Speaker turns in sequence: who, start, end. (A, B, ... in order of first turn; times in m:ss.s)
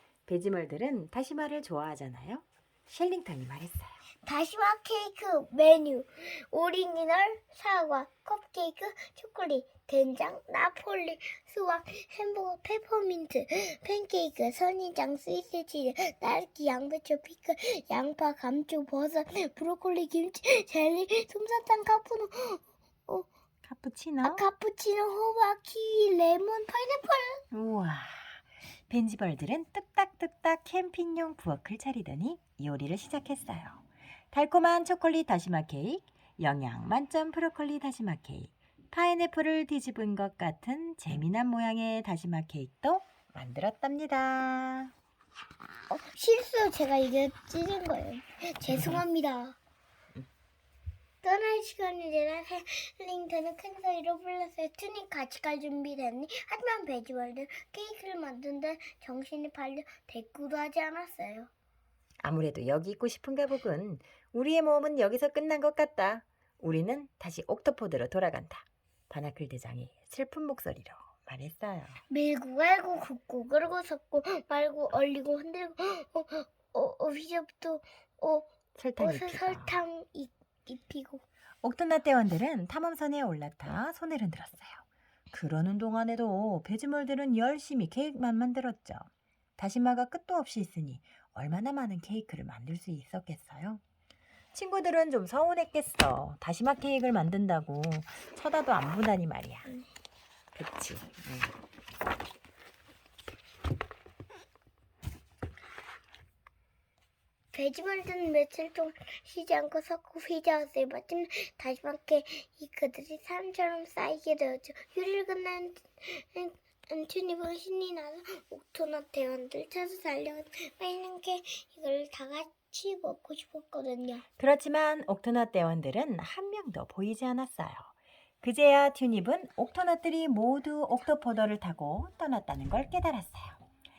0:00.3-0:04.0 A
0:04.2-0:23.3 B
0:23.6-0:24.4 A
0:24.2-0:27.4 B
0:27.5-0:44.9 A
0:45.9-0:49.6 B
0:48.7-0:49.0 A
0:51.2-1:01.5 B
1:02.2-1:12.0 A
1:12.1-1:21.2 B
1:18.8-1:19.8 A
1:21.6-1:29.1 A
1:29.6-1:33.8 A
1:34.5-1:39.7 A
1:40.6-1:41.5 A
1:47.5-2:04.2 B
2:04.4-2:13.6 A